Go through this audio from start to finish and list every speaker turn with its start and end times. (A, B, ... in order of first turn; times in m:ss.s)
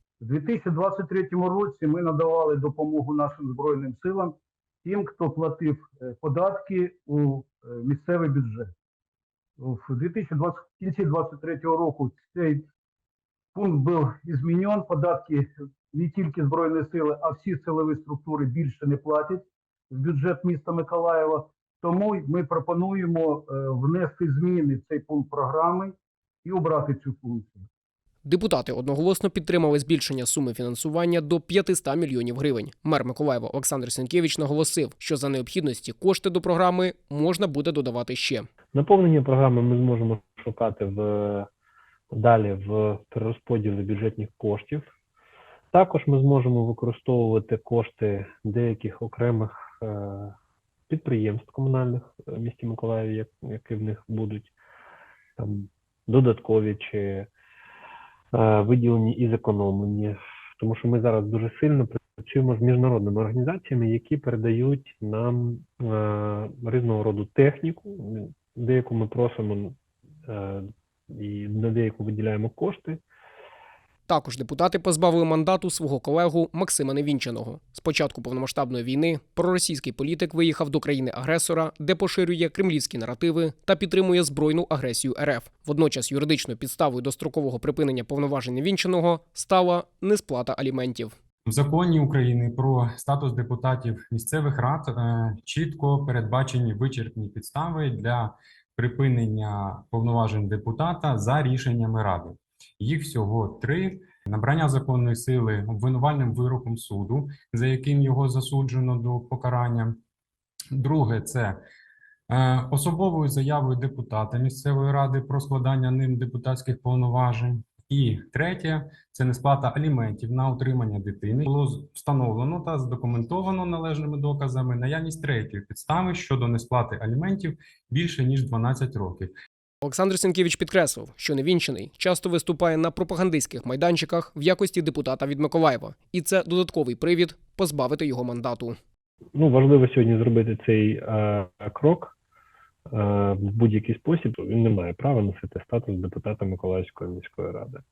0:00.2-0:08.7 A
0:09.6-0:12.6 A
0:13.5-0:27.7 A
0:28.2-0:38.5 B
0:38.7-0:41.5 C
0:42.1-0:44.8 C
0:45.7-0:50.3 C
0:50.9-0:54.5 C
0:55.4-0:57.3 C
0:58.3-1:13.0 C
1:14.1-1:31.1 B
1:31.4-1:50.0 D
1:50.7-1:51.6 D
1:52.3-2:09.3 D
2:09.8-2:18.8 B
2:19.3-2:22.2 C
2:22.9-2:27.8 C